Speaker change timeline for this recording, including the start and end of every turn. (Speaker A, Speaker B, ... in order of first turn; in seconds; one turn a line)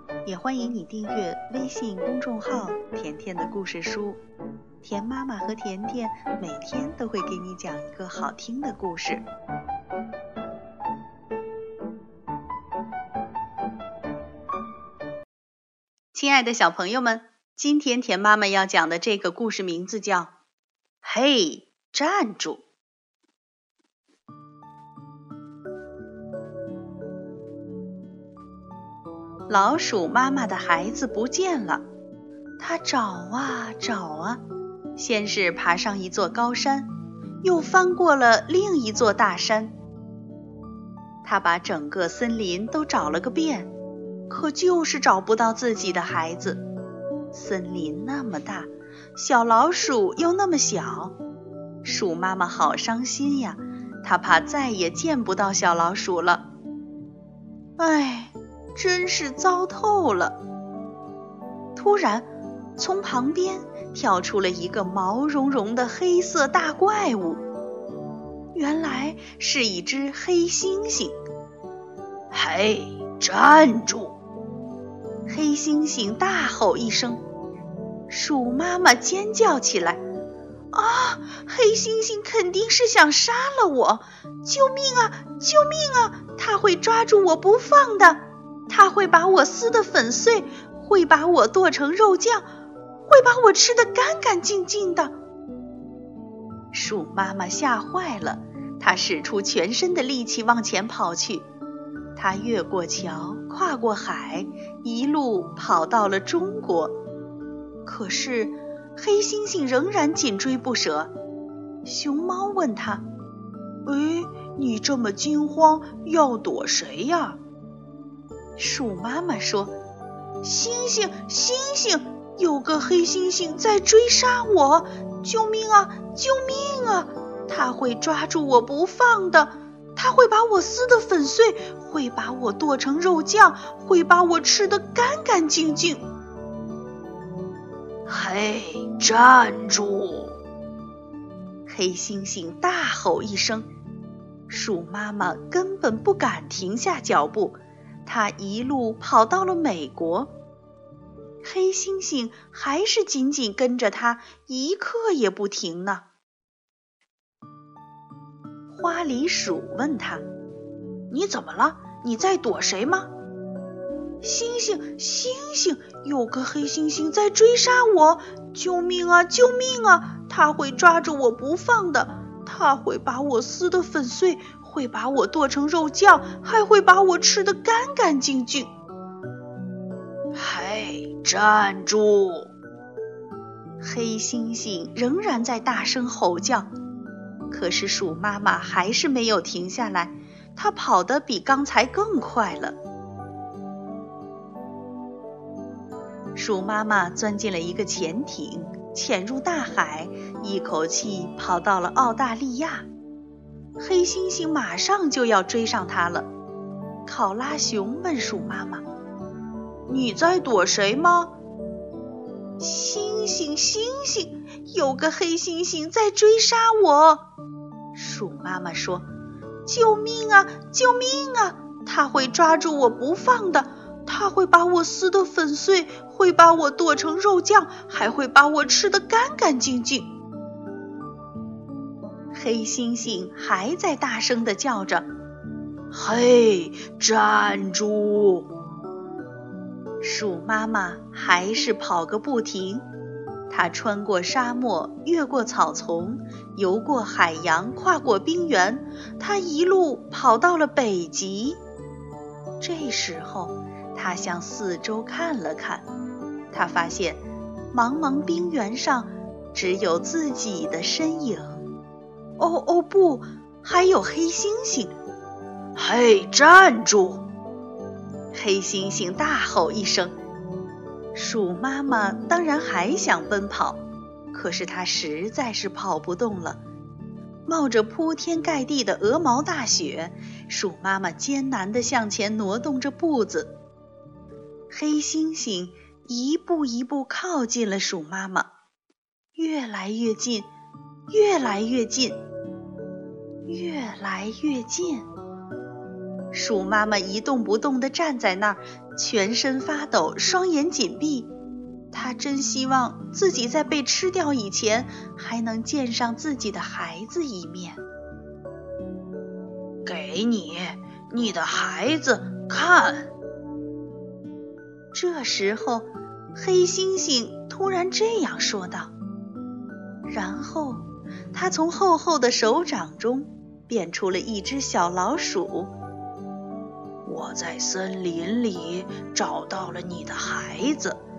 Speaker A: 0.2-4.2
Speaker A: 4.8-9.2
Speaker A: 16.1-20.3
Speaker A: 21.0-22.6
Speaker A: 29.5-31.8
Speaker A: 32.6-34.4
Speaker A: 35.0-36.9
Speaker A: 37.4-39.7
Speaker A: 41.2-43.7
Speaker A: 44.3-46.6
Speaker A: 47.3-51.1
Speaker A: 51.8-56.5
Speaker A: 57.8-60.4
Speaker A: 61.8-67.4
Speaker A: 68.5-71.1
Speaker B: 72.3-74.1
Speaker A: 75.3-77.2
Speaker A: 78.1-80.0
Speaker A: 80.7-92.4
Speaker A: 93.0-95.1
Speaker A: 96.7-101.5
Speaker A: 102.2-107.0
Speaker A: 107.8-111.1
Speaker A: 111.8-113.0
Speaker A: 113.8-117.4
Speaker A: 118.6-119.7
Speaker A: 120.4-136.0
Speaker B: 138.1-140.3
Speaker A: 141.7-143.7
Speaker A: 144.5-150.3
Speaker A: 151.4-156.0
Speaker A: 158.7-160.2
Speaker A: 161.1-163.1
Speaker A: 164.2-178.7
Speaker B: 180.3-182.5
Speaker A: 183.8-186.7
Speaker A: 187.5-192.8
Speaker A: 196.3-202.9
Speaker A: 203.8-206.3
Speaker A: 207.0-208.8
Speaker A: 209.9-211.3
Speaker A: 212.6-217.2
Speaker A: 217.9-219.1
Speaker A: 219.7-230.1
Speaker A: 232.3-235.1
Speaker B: 235.9-238.4
Speaker A: 236.6-236.8
Speaker A: 240.0-242.8
Speaker A: 243.5-251.6
Speaker A: 252.6-255.8
Speaker A: 256.5-261.6
Speaker A: 262.4-264.9
Speaker B: 265.8-267.2
Speaker A: 268.3-270.1
Speaker A: 271.1-273.8
Speaker A: 274.3-276.6
Speaker A: 277.4-283.5
Speaker A: 284.7-288.5
Speaker A: 289.4-290.5
Speaker A: 291.1-292.2
Speaker A: 293.4-295.1
Speaker A: 296.3-301.3
Speaker A: 301.9-307.8
Speaker B: 309.9-313.1
Speaker A: 314.9-318.9
Speaker A: 320.1-325.7
Speaker B: 327.1-330.9
Speaker A: 327.6-330.9